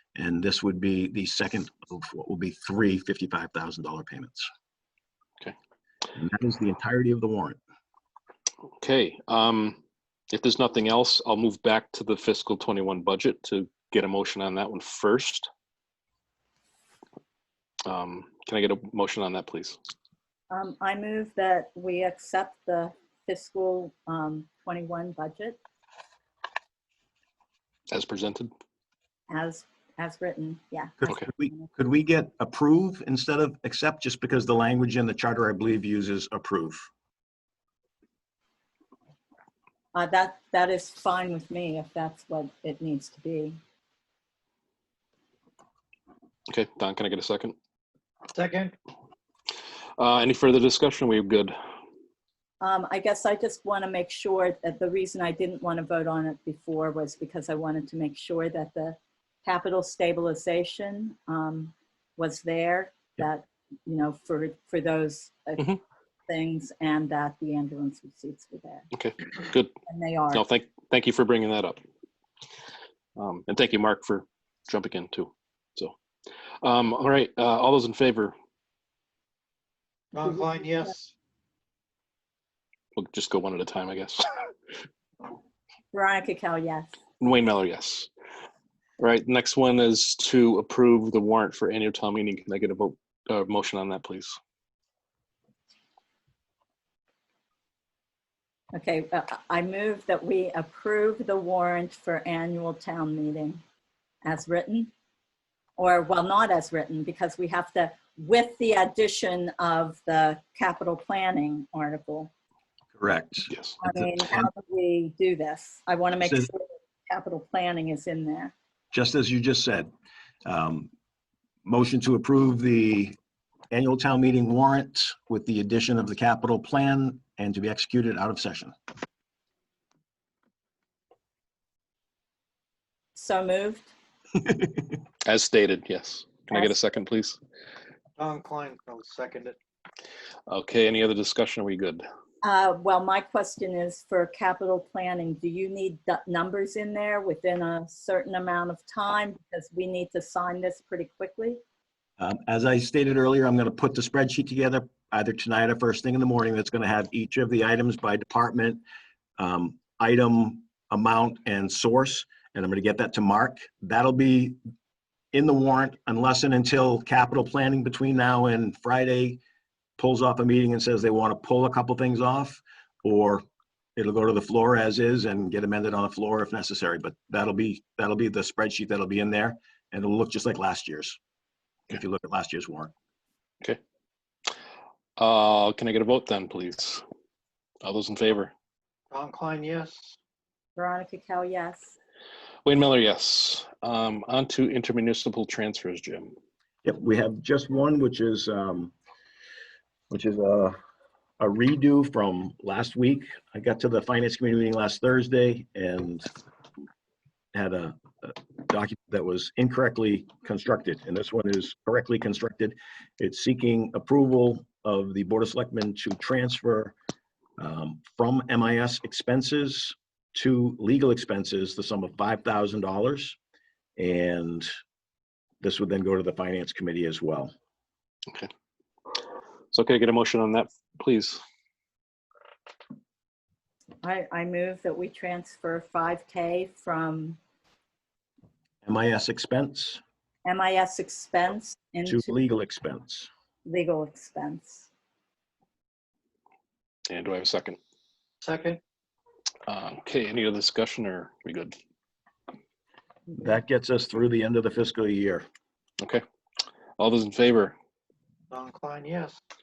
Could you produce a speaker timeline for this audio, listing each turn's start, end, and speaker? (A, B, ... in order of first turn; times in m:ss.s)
0:00.1-0:04.5 A
0:06.1-0:07.6 A
0:08.8-0:09.8 B
0:10.3-0:15.5 B
0:17.8-0:19.8 B
0:20.5-0:25.6 C
0:27.9-0:28.5 B
0:29.3-0:31.6 C
0:31.0-0:36.9 A
0:39.9-0:43.6 C
0:46.5-0:47.5 B
0:48.3-0:48.7 D
0:50.0-0:51.5 B
0:52.6-1:08.9 C
1:08.9-1:09.7 B
1:09.9-1:10.4 C
1:10.3-1:11.8 B
1:13.2-1:15.9 B
1:16.6-1:18.3 B
1:20.1-1:21.1 D
1:22.9-1:24.5 B
1:25.9-1:26.9 C
1:27.2-1:28.1 B
1:29.0-1:34.4 B
1:38.7-1:43.6 C
1:44.2-1:44.9 C
1:45.8-1:52.3 C
1:53.0-1:54.4 A
1:53.8-1:58.5 C
1:56.2-1:56.5 A
1:58.9-1:59.9 A
2:00.4-2:00.9 A
2:01.6-2:03.2 A
2:03.7-2:08.7 A
2:13.2-2:13.9 C
2:15.2-2:17.4 B
2:18.2-2:19.6 D
2:20.5-2:22.0 B
2:22.4-2:31.6 C
2:32.2-2:38.8 A
2:39.4-2:44.6 A
2:45.3-2:49.4 A
2:50.0-2:53.4 A
2:54.0-3:01.2 A
3:01.9-3:02.9 A
3:05.2-3:07.0 B
3:07.8-3:08.5 B
3:09.1-3:10.2 D
3:10.8-3:11.9 C
3:12.6-3:16.3 B
3:16.8-3:18.9 A
3:20.1-3:20.8 A
3:21.4-3:26.3 A
3:27.5-3:36.9 A
3:37.6-3:43.4 A
3:44.0-3:44.7 A
3:45.6-3:47.5 A
3:49.7-3:51.4 B
3:54.0-3:57.4 C
3:58.8-4:00.0 A
4:00.4-4:02.3 C
4:02.1-4:03.3 A
4:03.6-4:04.9 C
4:07.1-4:07.8 B
4:08.4-4:08.8 D
4:09.7-4:11.7 B
4:13.4-4:15.4 A
4:17.0-4:17.7 B
4:18.5-4:19.4 D